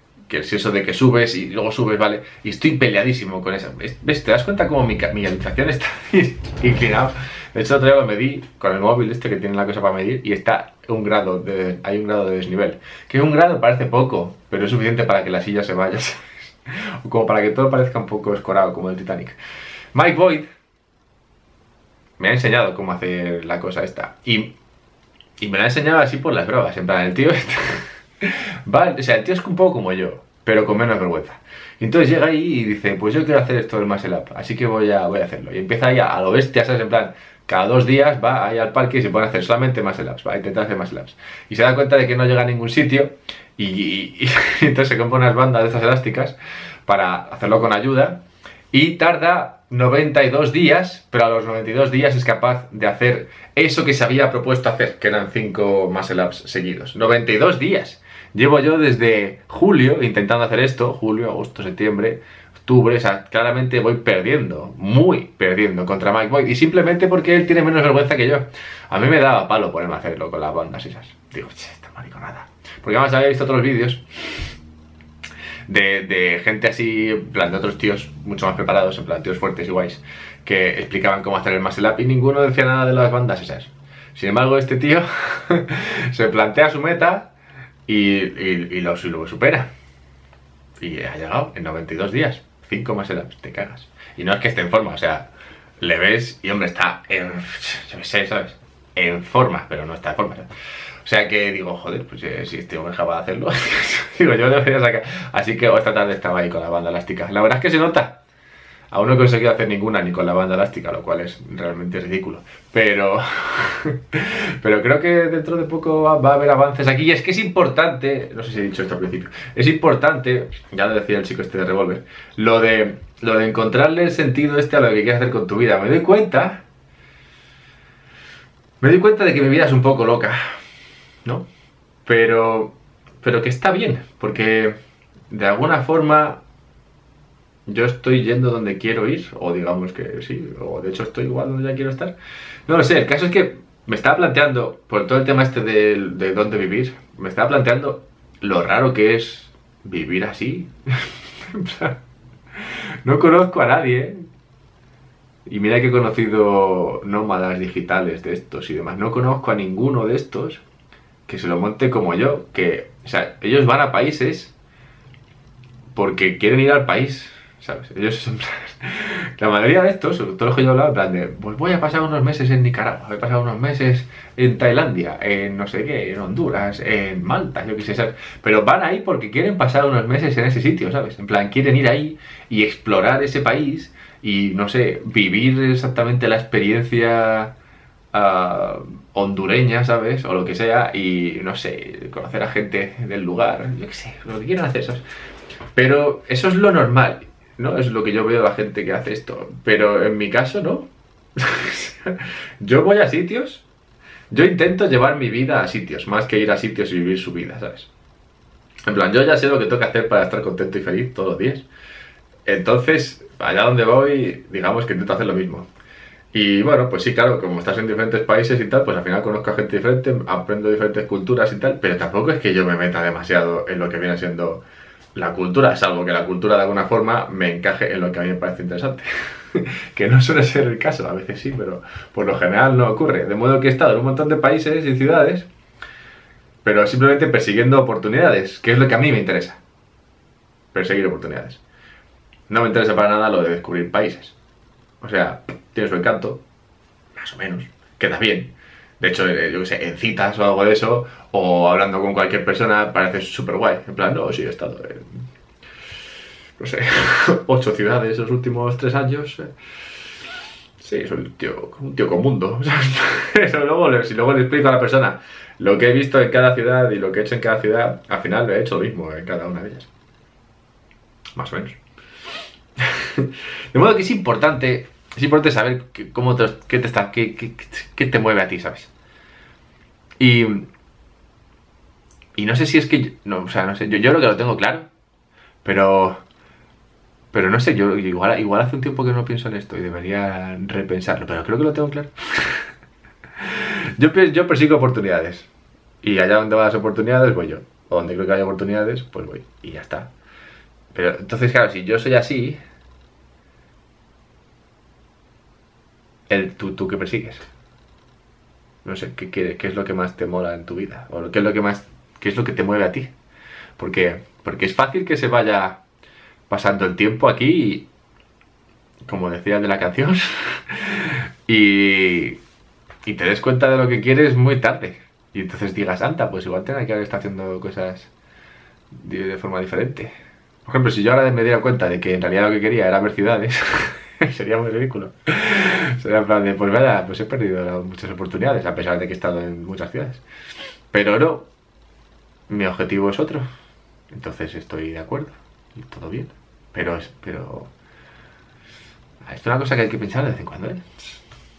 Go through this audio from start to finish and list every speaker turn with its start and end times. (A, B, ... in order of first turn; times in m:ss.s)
0:00.3-0:19.4 A
0:19.9-0:20.5 A
0:22.2-0:24.5 A
0:25.4-1:14.4 A
1:15.7-1:27.3 A
1:27.9-1:29.7 A
1:30.8-1:35.3 A
1:35.8-1:40.5 A
1:41.0-1:48.2 A
1:48.9-2:06.6 A
2:08.8-2:10.4 A
2:12.1-2:14.8 A
2:15.3-2:16.4 A
2:17.7-2:22.2 A
2:22.7-2:32.0 A
2:32.6-2:34.3 A
2:35.5-2:40.6 A
2:41.3-2:44.5 A
2:46.0-3:07.6 A
3:08.1-3:15.0 A
3:15.8-3:23.6 A
3:24.3-3:27.9 A
3:28.9-3:31.7 A
3:32.5-3:35.7 A
3:36.3-3:44.6 A
3:45.2-3:55.5 A
3:56.6-3:59.6 A
4:00.7-4:01.6 A
4:02.5-4:04.4 A
4:05.0-4:06.4 A
4:07.2-4:15.1 A
4:16.6-4:19.5 A
4:20.8-4:29.9 A
4:31.4-4:31.8 A
4:32.8-4:38.9 A
4:40.2-4:40.7 A
4:42.4-4:44.9 A
4:45.6-4:46.2 A
4:47.3-4:52.6 A
4:53.4-4:55.5 A
4:56.0-5:00.1 A
5:00.9-5:02.6 A
5:06.3-5:07.5 A
5:08.8-5:13.1 A
5:13.8-5:15.8 A
5:16.5-5:17.9 A
5:19.1-5:22.4 A
5:23.0-5:28.1 A
5:28.9-5:30.1 A
5:30.6-5:40.2 A
5:40.9-5:41.5 A
5:42.5-5:43.4 A
5:44.1-5:47.7 A
5:49.2-5:51.2 A